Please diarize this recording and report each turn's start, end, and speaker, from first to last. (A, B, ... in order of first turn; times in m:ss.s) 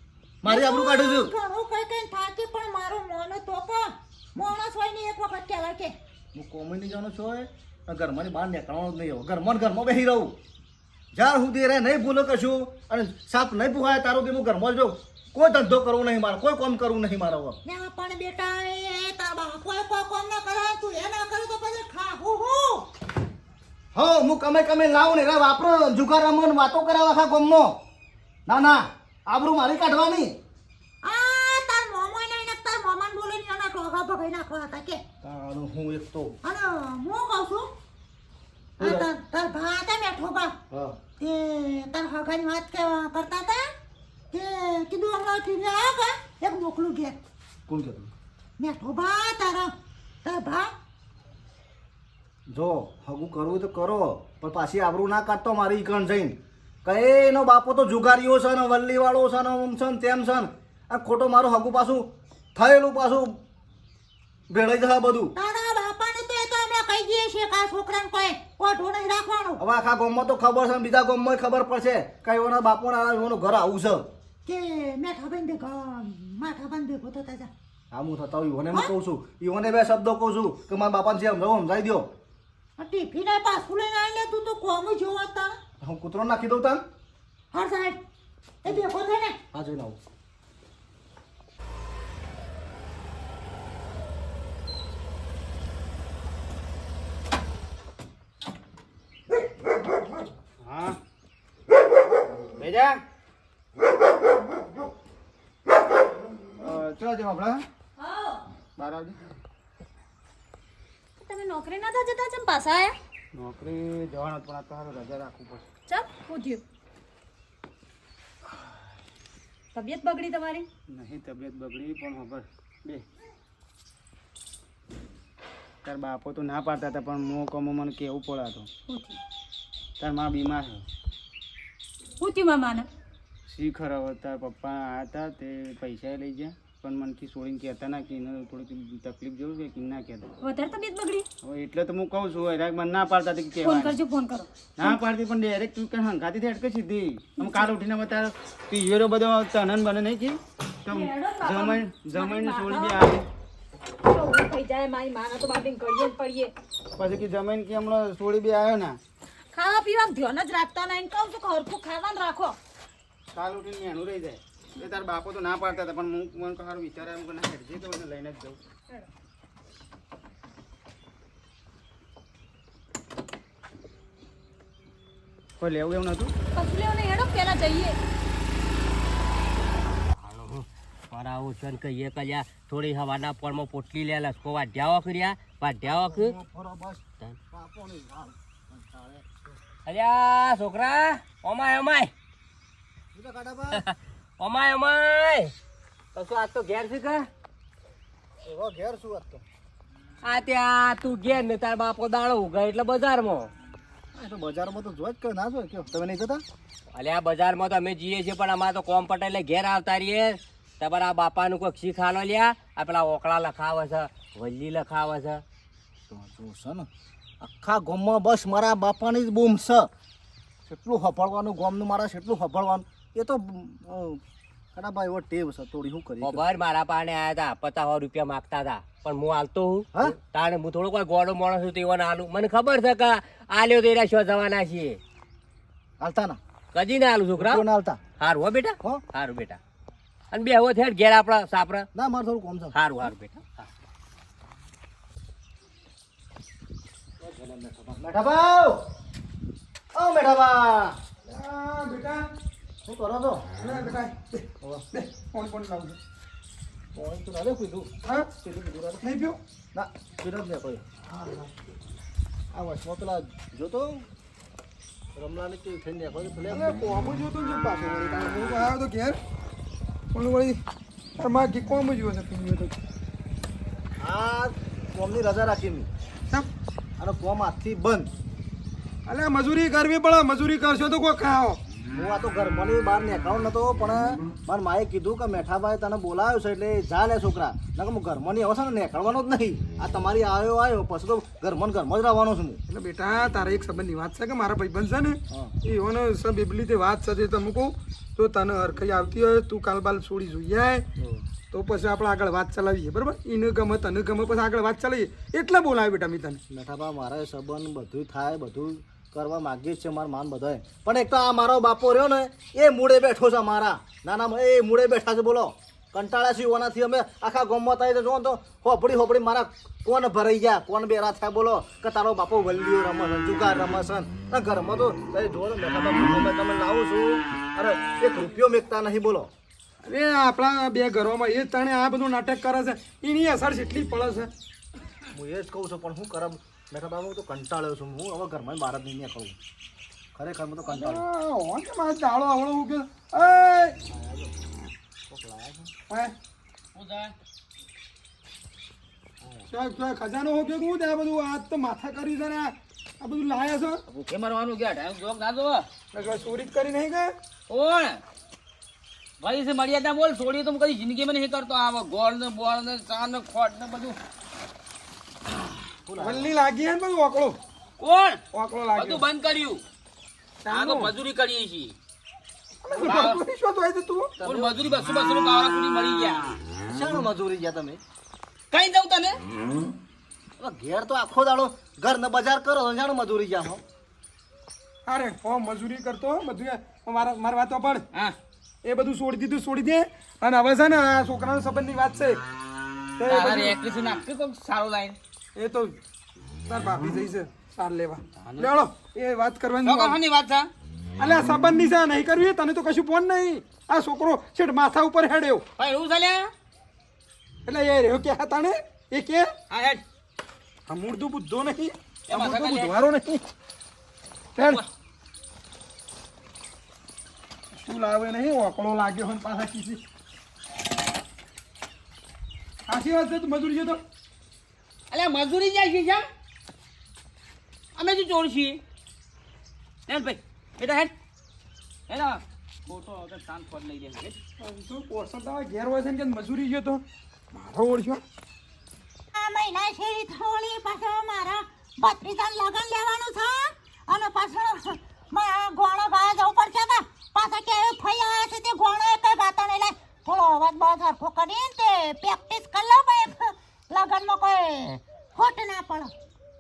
0:00.4-0:01.3 A
0:00.4-0:05.9 B
0:06.3-0:10.4 A
0:11.1-0:17.6 A
0:17.6-0:22.8 B
0:23.9-0:27.8 A
0:28.5-0:30.4 A
0:31.0-0:35.0 B
0:35.2-0:36.3 A
0:36.4-0:37.7 B
0:38.8-0:40.5 B
0:38.8-0:39.1 A
0:40.7-0:41.0 A
0:41.2-0:43.7 B
0:44.3-0:47.2 B
0:47.7-0:48.1 A
0:48.6-0:49.7 B
0:50.2-0:50.7 B
0:52.5-1:03.4 A
1:04.5-1:05.3 A
1:05.4-1:09.6 B
1:09.6-1:14.1 A
1:14.4-1:17.5 B
1:17.9-1:22.1 A
1:22.8-1:25.6 B
1:25.8-1:26.8 A
1:27.5-1:28.0 B
1:28.6-1:29.4 B
1:29.5-1:30.0 A
1:40.6-1:41.0 C
1:42.5-1:43.0 C
1:46.6-1:47.6 C
1:48.0-1:48.4 D
1:48.8-1:49.2 C
1:51.2-1:53.0 D
1:53.3-1:55.6 C
1:55.9-1:56.6 D
1:59.7-2:00.7 D
2:00.9-2:03.0 C
2:05.8-2:08.7 C
2:08.9-2:09.2 D
2:10.0-2:10.8 C
2:12.2-2:12.9 D
2:13.5-2:20.3 C
2:20.4-2:21.3 D
2:21.4-2:24.0 C
2:23.6-2:25.0 D
2:24.8-2:33.2 C
2:27.4-2:27.7 D
2:30.9-2:33.0 D
2:34.0-2:36.5 D
2:37.0-2:39.0 C
2:39.5-2:42.6 D
2:43.3-2:48.6 C
2:55.6-2:56.3 C
2:56.6-2:58.0 D
3:00.1-3:06.3 E
3:05.8-3:09.6 A
3:09.8-3:12.1 E
3:13.1-3:13.8 A
3:13.7-3:15.5 E
3:16.1-3:17.3 E
3:18.4-3:19.4 A
3:20.2-3:23.5 E
3:24.1-3:26.4 A
3:26.9-3:35.4 E
3:36.1-3:36.9 A
3:37.4-3:39.9 A
3:40.6-3:44.2 A
3:44.7-3:46.4 A
3:46.2-3:55.0 E
3:56.0-3:56.4 A
3:56.7-3:57.6 E
3:57.4-3:58.0 A
3:58.2-3:59.6 E
4:00.3-4:01.9 E
4:01.9-4:02.7 A
4:02.7-4:03.6 E
4:07.2-4:08.8 A
4:09.9-4:11.0 A
4:11.2-4:12.3 F
4:12.8-4:13.5 A
4:13.6-4:16.0 F
4:16.9-4:19.0 A
4:19.0-4:19.4 F
4:19.7-4:20.8 A
4:21.1-4:21.5 F
4:22.5-4:24.1 A
4:25.1-4:26.8 A
4:26.5-4:29.2 F
4:30.1-4:30.6 F
4:31.2-4:32.8 F
4:34.0-4:35.9 A
4:37.0-4:38.1 A
4:39.1-4:41.6 F
4:41.9-4:52.6 A
4:52.7-5:00.8 F
5:01.0-5:01.2 A
5:01.5-5:06.4 F
5:06.5-5:29.3 A
5:29.8-5:34.3 F
5:35.1-5:39.4 A
5:40.1-5:41.0 A
5:40.7-5:43.8 F
5:43.8-5:44.3 A
5:45.1-5:45.7 A
5:45.9-5:46.1 F
5:46.7-5:47.1 G
5:49.2-5:49.5 A
5:49.5-5:53.8 F
5:53.9-5:55.7 G
5:55.9-5:57.1 F
5:57.5-5:58.0 G
5:59.2-6:04.0 G
6:05.9-6:06.3 A
6:06.0-6:07.4 F
6:07.8-6:08.2 G
6:08.3-6:09.0 F
6:08.7-6:09.6 G
6:10.4-6:10.9 F
6:10.5-6:11.7 G
6:12.6-6:14.1 F
6:12.8-6:13.2 G
6:14.2-6:14.6 A
6:14.2-6:16.3 G
6:16.7-6:17.8 A
6:18.5-6:19.2 G
6:20.4-6:23.6 A
6:24.9-6:27.8 F
6:28.6-6:32.2 F
6:33.0-6:33.5 F
6:33.1-6:35.0 G
6:35.4-6:35.8 F
6:36.5-6:40.0 F
6:38.2-6:38.5 G
6:39.6-6:40.5 G
6:41.0-6:45.4 F
6:45.6-6:46.3 G
6:47.4-6:49.3 F
6:49.5-6:49.8 G
6:50.7-6:53.2 F
6:52.1-6:52.8 G
6:54.4-6:54.6 F
6:57.5-6:59.8 F
7:02.7-7:03.8 F
7:04.9-7:06.0 G
7:07.8-7:08.6 G
7:09.9-7:10.9 G
7:11.9-7:14.2 G
7:14.4-7:18.0 F
7:19.1-7:35.9 B